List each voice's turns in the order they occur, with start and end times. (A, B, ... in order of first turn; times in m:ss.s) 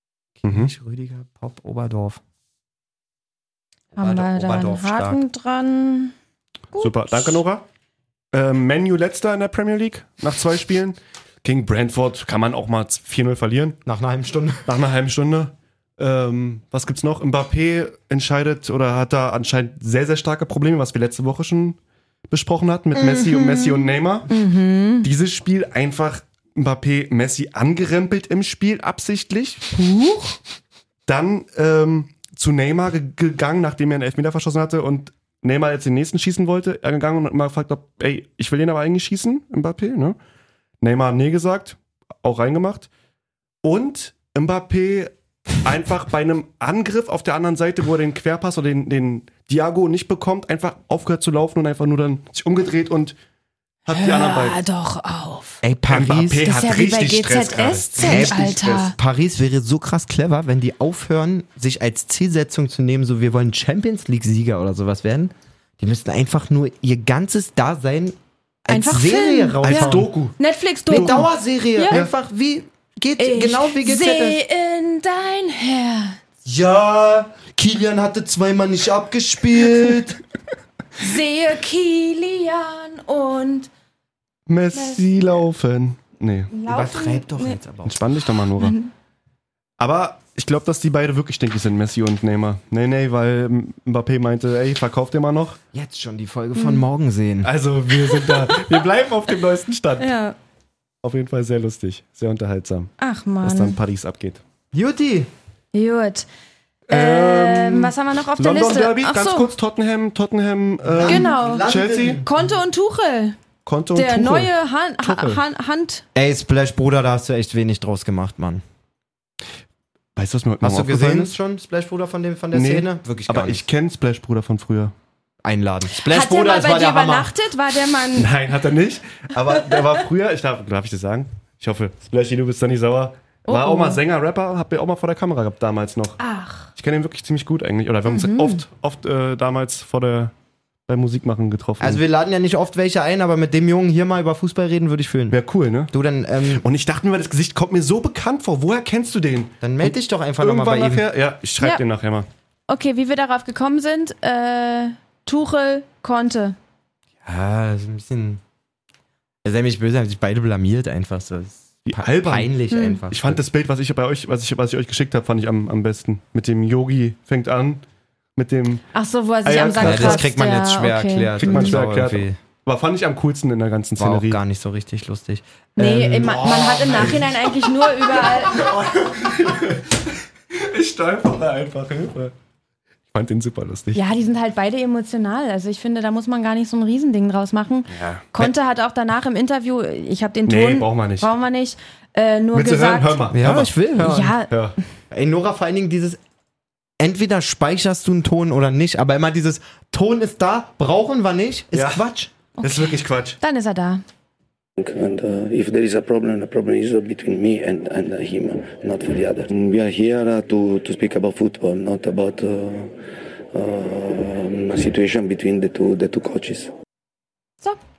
0:00.4-0:02.2 A
0:00.4-0:00.7 B
0:03.9-0:05.2 A
0:04.0-0:06.2 C
0:06.7-0:07.3 C
0:06.8-0:07.6 B
0:08.3-0:13.8 B
0:13.8-0:14.7 A
0:14.6-0:21.8 B
0:22.3-0:24.3 B
0:23.0-0:23.9 A
0:24.3-0:25.1 C
0:25.0-0:29.8 B
0:31.1-0:40.2 B
0:40.8-0:42.9 B
0:43.6-0:53.2 B
0:53.9-0:54.6 B
0:53.9-0:55.6 C
0:55.6-0:56.4 A
0:55.9-0:58.9 B
0:56.4-0:59.0 C
0:58.0-1:10.1 A
1:08.7-1:12.0 C
1:09.6-1:10.4 B
1:10.9-1:11.3 B
1:10.9-1:14.4 A
1:13.2-1:16.2 C
1:16.4-1:20.2 A
1:21.0-1:23.7 C
1:24.5-1:26.5 B
1:24.7-1:25.1 C
1:26.5-1:27.6 C
1:26.7-1:28.0 A
1:27.9-1:28.8 B
1:28.6-1:28.9 C
1:29.8-1:35.6 B
1:35.7-1:37.5 A
1:36.6-1:36.8 C
1:37.4-1:40.1 B
1:38.1-1:38.7 C
1:40.0-1:40.4 C
1:41.0-1:42.9 B
1:43.0-1:43.8 C
1:43.4-1:44.4 B
1:44.7-1:45.3 A
1:45.7-1:46.3 C
1:46.9-1:52.2 B
1:46.9-1:49.5 C
1:50.8-1:52.4 A
1:51.0-1:51.7 C
1:52.2-1:53.4 C
1:53.7-1:55.4 B
1:54.0-1:56.0 C
1:56.2-1:58.6 A
2:00.2-2:01.3 B
2:00.6-2:03.6 A
2:02.5-2:04.9 B
2:05.4-2:07.3 A
2:05.9-2:08.3 C
2:08.1-2:16.2 B
2:13.5-2:14.0 C
2:16.2-2:16.7 C
2:16.8-2:20.3 B
2:18.0-2:18.6 C
2:20.9-2:22.0 B
2:21.8-2:25.4 A
2:25.3-2:25.9 B
2:25.9-2:26.6 A
2:26.6-2:32.3 B
2:29.6-2:31.0 A
2:32.7-2:36.6 C
2:37.2-2:38.4 A
2:39.4-2:43.4 A
2:41.8-2:42.5 B
2:42.7-2:43.0 C
2:43.1-2:47.8 B
2:48.4-2:48.8 B
2:48.9-2:51.8 C
2:49.4-2:50.2 B
2:49.8-2:52.4 A
2:51.4-2:54.4 B
2:54.0-2:57.2 A
2:55.8-2:58.7 C
2:56.2-2:57.4 B
2:58.2-3:00.0 B
3:00.5-3:02.3 B
3:03.1-3:04.0 B
3:03.9-3:13.3 C
3:07.9-3:08.5 B
3:10.5-3:11.3 B
3:12.5-3:13.8 B
3:13.3-3:14.4 A
3:14.0-3:14.6 C
3:14.5-3:14.8 B
3:15.1-3:16.2 A
3:17.0-3:22.3 A
3:21.7-3:22.0 B
3:22.6-3:24.0 C
3:22.6-3:23.4 B
3:24.8-3:33.0 D
3:33.5-3:36.7 D